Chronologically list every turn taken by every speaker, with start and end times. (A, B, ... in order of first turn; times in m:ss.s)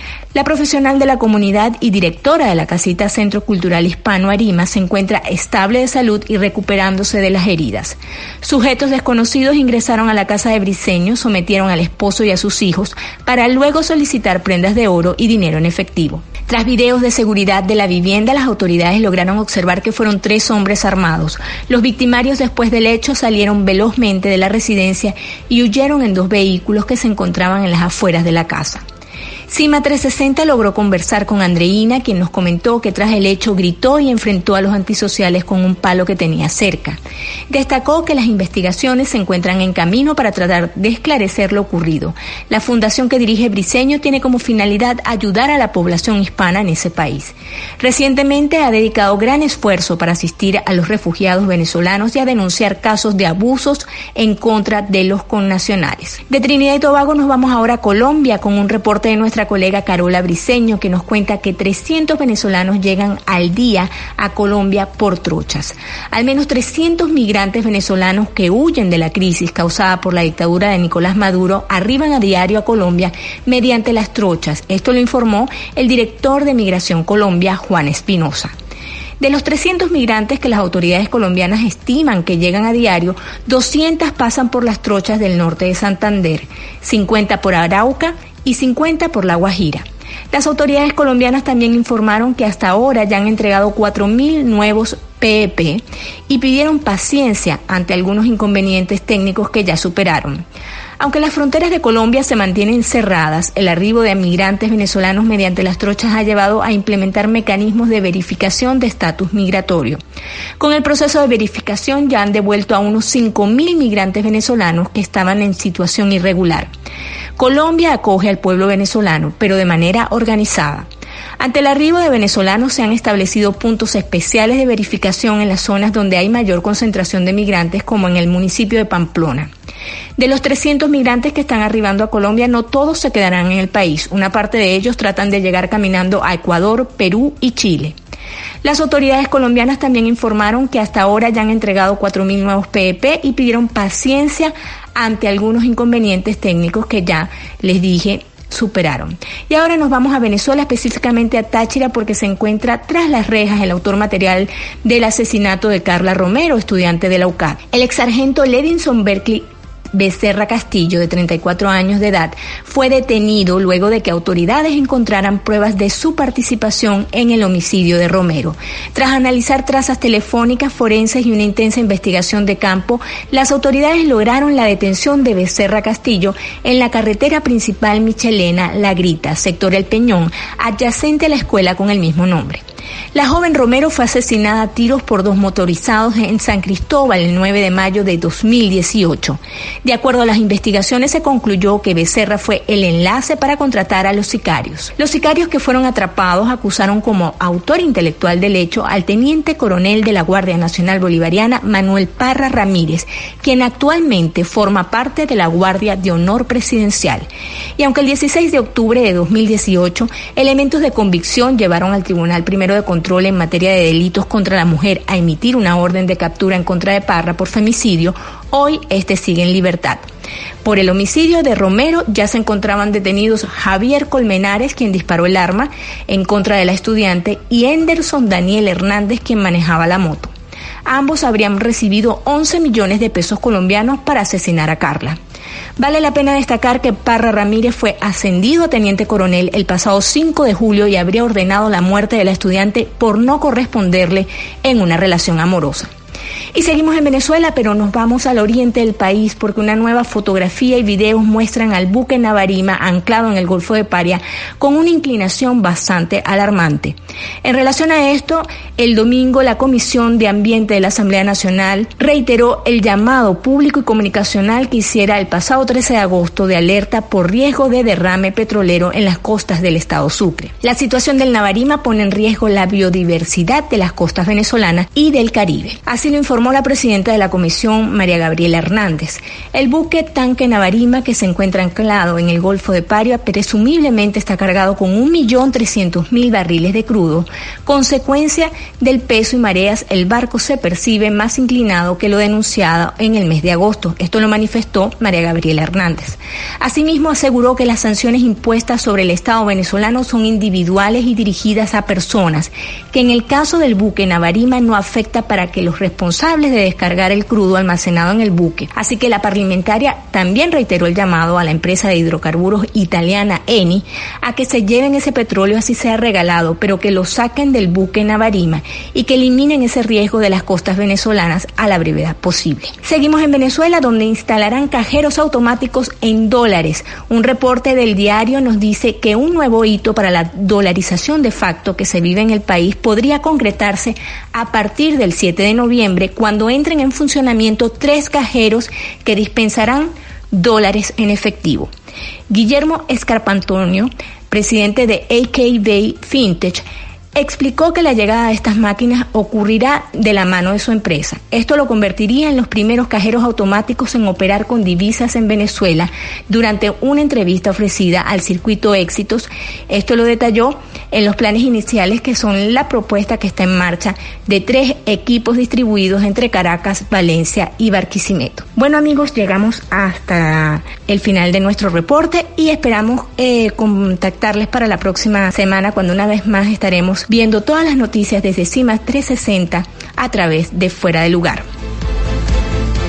0:00.3-0:28.8 A
0:29.5-0:37.0 A
0:37.5-1:18.5 A
1:19.2-1:40.4 A
1:41.0-1:50.0 A
1:50.6-1:56.7 A
1:57.4-2:00.9 A
2:01.4-2:09.5 A
2:10.2-2:18.0 A
2:18.6-3:02.6 A
3:03.1-3:40.0 A
3:40.6-3:50.3 A
3:50.8-3:55.2 A
3:55.8-4:05.9 A
4:06.5-5:41.7 A
5:42.3-5:46.6 A
5:47.1-6:21.5 A